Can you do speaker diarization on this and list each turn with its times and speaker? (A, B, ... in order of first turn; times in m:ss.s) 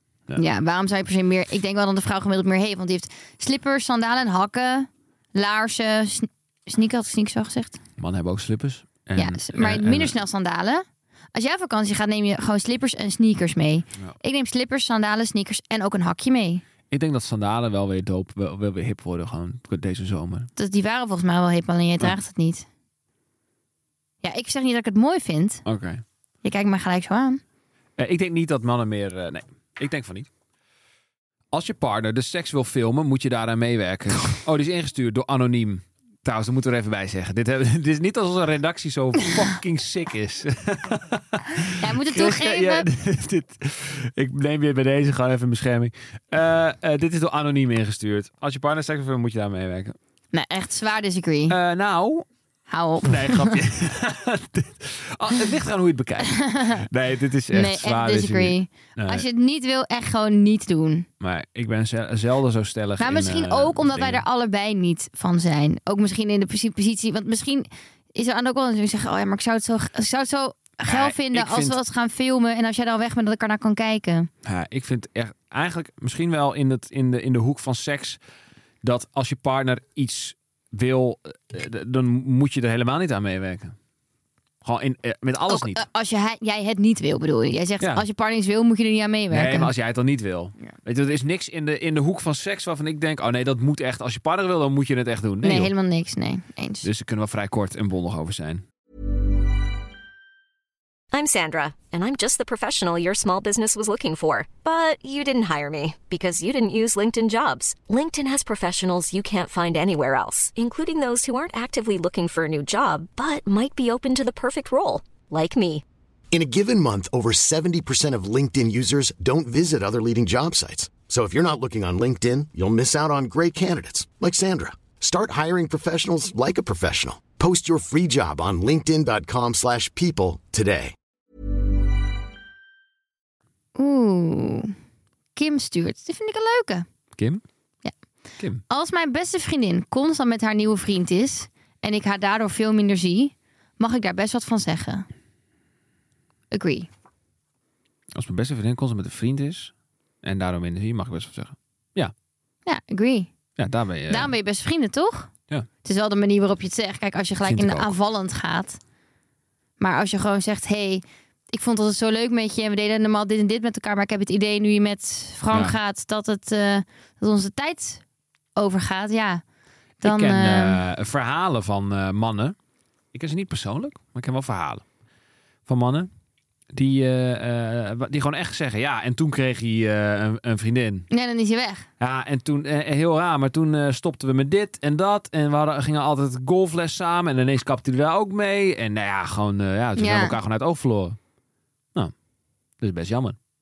0:00.4-0:07.8 A
0:08.0-0:10.1 B
0:09.2-0:16.6 A
0:16.9-0:20.5 B
0:20.6-0:22.6 A
0:24.2-0:25.6 A
0:25.6-0:26.0 B
0:26.4-0:27.4 A
0:28.0-0:30.3 B
0:31.5-0:50.0 B
0:41.7-0:42.9 A
0:50.3-0:51.6 A
0:51.5-0:52.2 B
0:52.7-0:53.6 A
0:53.0-0:59.2 B
0:56.3-0:56.8 A
0:57.5-1:01.1 A
1:01.2-1:04.2 B
1:03.0-1:14.3 A
1:10.9-1:11.8 B
1:14.4-1:18.2 B
1:18.8-1:23.7 B
1:24.6-1:25.8 B
1:25.5-1:29.7 A
1:29.3-1:35.7 B
1:35.4-1:36.9 A
1:36.8-1:38.6 B
1:41.1-1:55.8 C
1:56.3-2:10.9 D
2:13.8-2:14.7 A
2:15.3-2:16.8 A
2:17.2-2:17.4 B
2:18.7-2:25.0 A
2:26.5-2:26.9 A
2:28.1-2:29.7 B
2:30.2-2:32.1 B
2:32.6-2:33.3 A
2:33.6-2:34.3 B
2:34.1-2:35.3 A
2:35.8-2:38.8 A
2:37.4-2:37.9 B
2:39.8-2:48.0 A
2:45.5-2:45.8 B
2:48.6-2:49.4 A
2:50.0-2:50.8 A
2:50.0-2:52.5 B
2:53.1-2:54.8 B
2:55.6-2:56.1 B
2:56.7-3:01.1 B
3:01.1-3:01.9 A
3:02.0-3:11.2 B
3:10.0-3:10.4 A
3:12.8-3:13.4 B